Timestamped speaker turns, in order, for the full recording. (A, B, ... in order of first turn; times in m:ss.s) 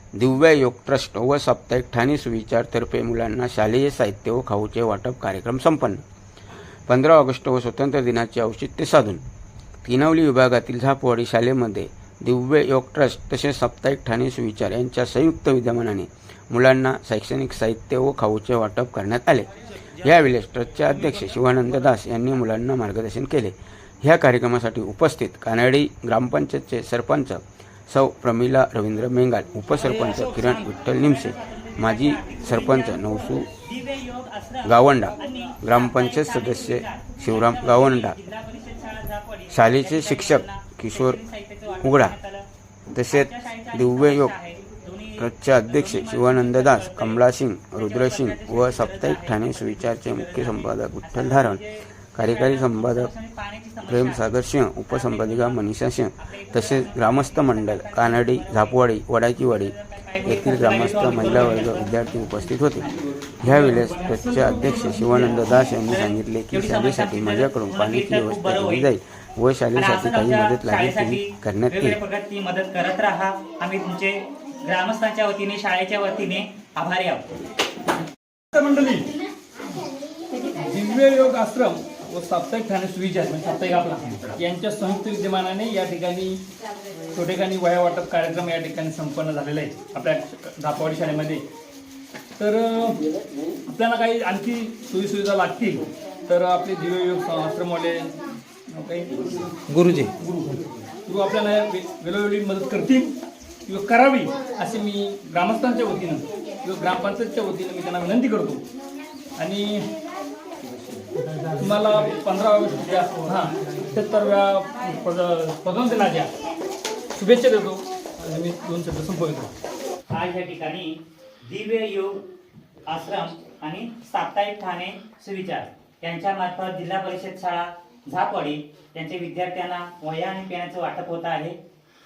0:00.1-0:06.0 A
0:06.9-0:09.2 A
0:09.8-0:33.5 A
0:30.1-0:42.4 B
0:34.6-0:38.2 A
0:39.5-0:41.2 A
0:41.8-0:42.1 A
0:42.9-0:44.3 A
0:43.1-0:47.2 B
0:45.2-0:51.6 A
0:47.8-0:55.6 B
0:52.1-0:53.1 A
0:53.8-1:02.9 A
0:56.2-0:58.8 B
0:59.4-1:01.9 B
1:03.4-1:12.0 A
1:03.6-1:05.2 C
1:04.9-1:08.9 B
1:09.7-1:17.2 B
1:18.5-1:19.1 C
1:20.5-1:26.4 C
1:27.1-1:31.4 C
1:32.4-1:33.0 C
1:33.7-1:43.1 C
1:43.7-1:48.6 C
1:49.4-1:49.9 C
1:51.6-1:56.3 C
1:57.2-1:59.5 C
2:00.1-2:02.2 B
2:02.9-2:11.6 B